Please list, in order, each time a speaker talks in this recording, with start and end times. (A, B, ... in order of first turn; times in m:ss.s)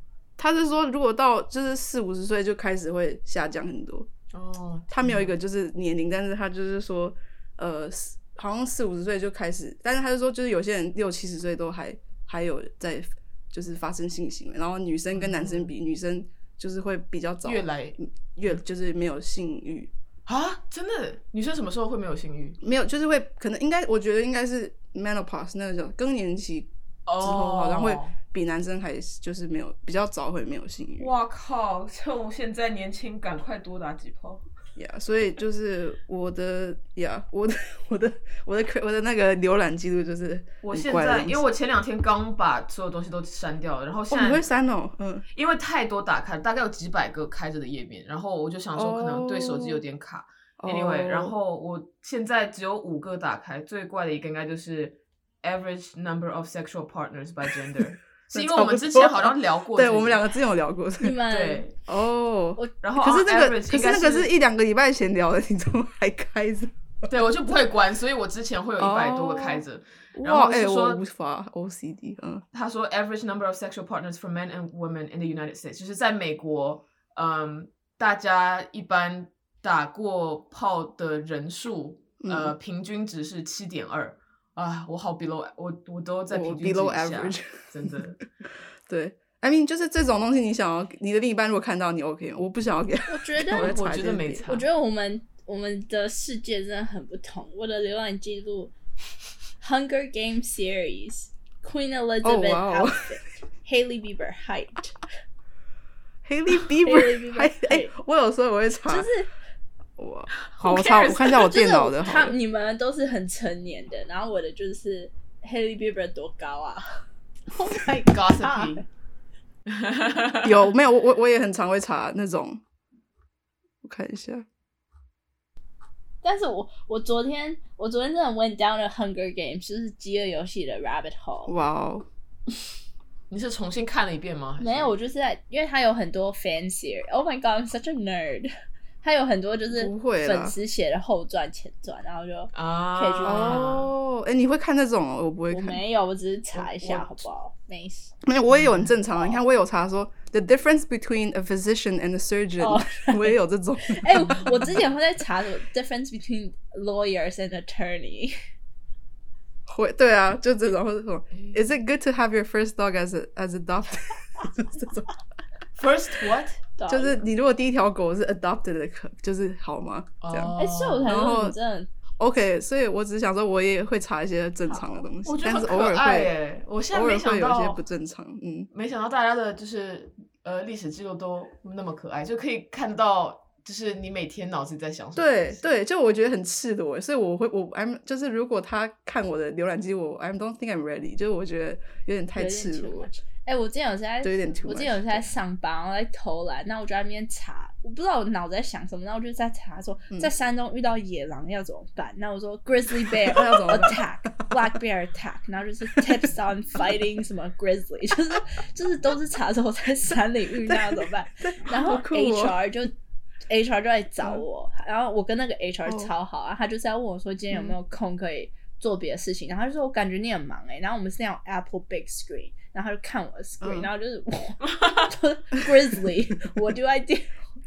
0:00.4-0:04.1 A
0:04.3-0:05.3 B
0:04.9-0:19.9 A
0:15.1-0:15.7 B
0:17.4-0:18.6 B
0:20.3-0:22.6 B
0:22.6-0:31.1 A
0:27.1-0:28.2 B
0:31.0-0:34.4 B
0:34.8-0:41.5 A
0:40.6-0:44.5 B
0:44.1-0:45.2 A
0:45.3-1:00.3 B
0:48.8-0:49.8 A
0:50.6-0:51.3 A
0:58.3-1:01.2 A
1:01.0-1:01.7 C
1:01.3-1:01.7 B
1:01.9-1:06.7 A
1:02.8-1:04.3 B
1:07.1-1:11.0 B
1:08.8-1:09.6 A
1:10.2-1:12.4 A
1:12.5-1:28.2 B
1:22.2-1:22.6 A
1:26.3-1:28.0 A
1:28.9-1:34.4 A
1:33.1-1:33.8 C
1:33.5-1:34.7 B
1:34.5-1:38.7 C
1:39.6-1:45.0 C
1:42.2-1:43.1 A
1:46.2-1:49.1 A
1:46.8-1:47.9 C
1:48.9-1:49.3 C
1:50.0-1:52.4 A
1:50.5-1:51.5 B
1:51.1-1:58.8 C
1:58.1-1:58.8 B
1:59.7-2:00.6 B
2:00.4-2:02.6 A
2:03.8-2:04.4 A
2:06.2-2:11.5 C
2:11.5-2:12.1 A
2:13.3-2:14.9 B
2:14.6-2:18.5 C
2:19.0-2:23.6 C
2:19.7-2:20.6 A
2:22.5-2:23.9 B
2:23.2-2:25.8 A
2:25.5-2:28.1 C
2:26.7-2:27.0 B
2:28.2-2:34.8 A
2:28.5-2:28.9 B
2:32.6-2:38.4 C
2:34.3-2:34.7 B
2:39.7-2:45.1 A
2:41.3-2:41.6 B
2:45.8-2:46.6 B
2:46.8-2:47.2 C
2:46.9-2:50.6 A
2:50.2-2:51.2 B
2:50.6-2:51.9 C
2:51.1-2:51.6 A
2:52.2-2:56.3 A
2:54.7-2:55.0 C
2:55.2-2:57.8 B
2:56.9-2:58.7 A
2:58.7-3:05.7 B
3:05.2-3:13.1 A
3:12.4-3:32.9 C
3:14.2-3:15.3 A
3:23.1-3:24.6 A
3:30.7-3:32.6 A
3:33.5-3:47.4 C
3:35.9-3:36.1 A
3:37.5-3:37.8 A
3:43.6-3:43.9 A
3:44.6-3:45.1 B